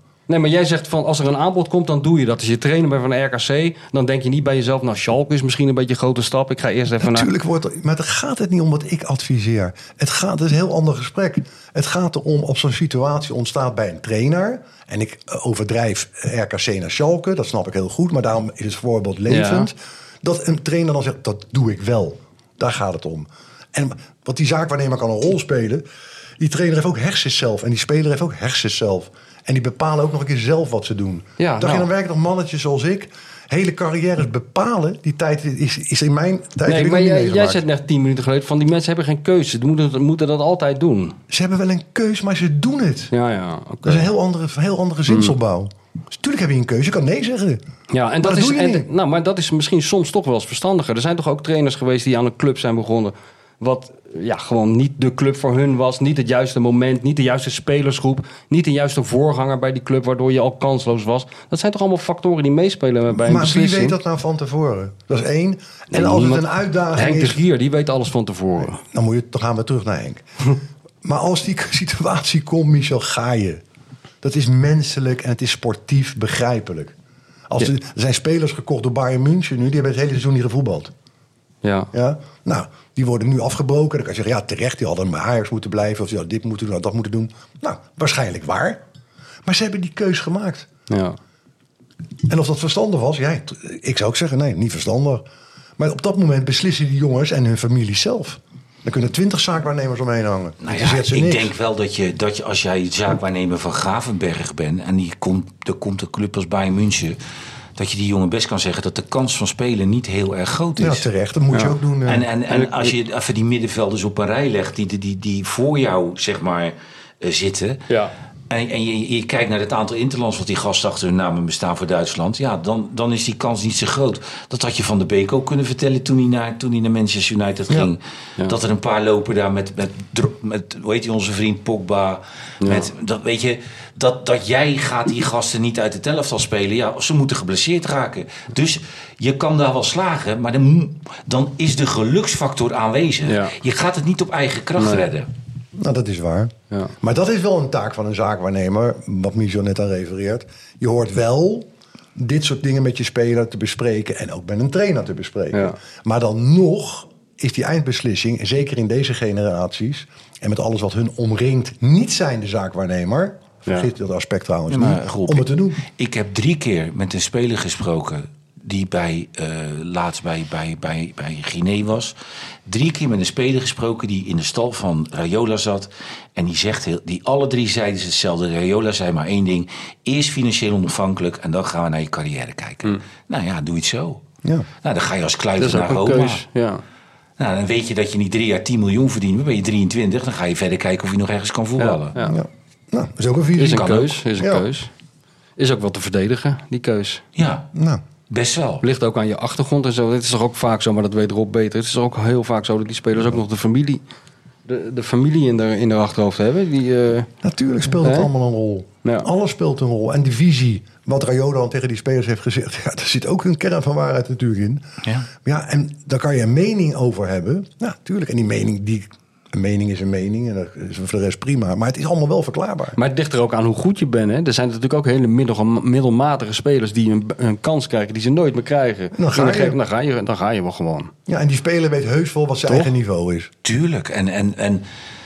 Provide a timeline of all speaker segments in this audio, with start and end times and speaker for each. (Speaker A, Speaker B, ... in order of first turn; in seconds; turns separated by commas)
Speaker A: 0.3-7.3, Speaker B: 7.0-25.8, Speaker A: 19.3-19.7, Speaker B: 26.4-37.6, Speaker A: 31.4-31.9, Speaker A: 36.6-41.2, Speaker B: 41.3-43.1, Speaker A: 43.1-44.1, Speaker B: 43.8-47.6, Speaker A: 45.1-45.3, Speaker A: 47.9-64.0, Speaker B: 48.2-48.9, Speaker B: 63.1-67.4, Speaker A: 65.9-68.8, Speaker B: 68.8-70.2, Speaker B: 71.0-73.6, Speaker B: 74.2-76.9, Speaker B: 77.5-80.9, Speaker A: 81.6-81.9, Speaker B: 81.9-88.8, Speaker B: 89.4-90.7, Speaker A: 90.9-91.2, Speaker B: 92.3-95.2, Speaker B: 95.8-101.5, Speaker C: 100.6-107.2, Speaker C: 107.8-111.0, Speaker B: 110.8-112.2, Speaker C: 112.0-117.9, Speaker A: 112.5-112.9, Speaker C: 118.5-145.3, Speaker A: 132.6-132.9, Speaker A: 143.2-143.5, Speaker A: 144.8-145.1, Speaker B: 145.7-165.8, Speaker C: 164.7-172.1, Speaker C: 172.7-184.2, Speaker C: 184.8-186.4, Speaker A: 185.6-186.8, Speaker C: 187.4-192.2, Speaker A: 191.8-192.3, Speaker B: 192.2-194.6, Speaker A: 193.6-194.9, Speaker C: 193.8-194.1, Speaker A: 195.6-197.2, Speaker C: 197.3-197.7, Speaker B: 197.7-198.0, Speaker C: 198.3-198.8, Speaker A: 198.8-204.0, Speaker A: 204.7-207.3, Speaker B: 207.4-214.8, Speaker A: 207.9-208.3, Speaker B: 215.4-223.0, Speaker A: 222.9-231.1, Speaker B: 229.1-229.8, Speaker B: 231.3-233.5, Speaker C: 233.6-234.8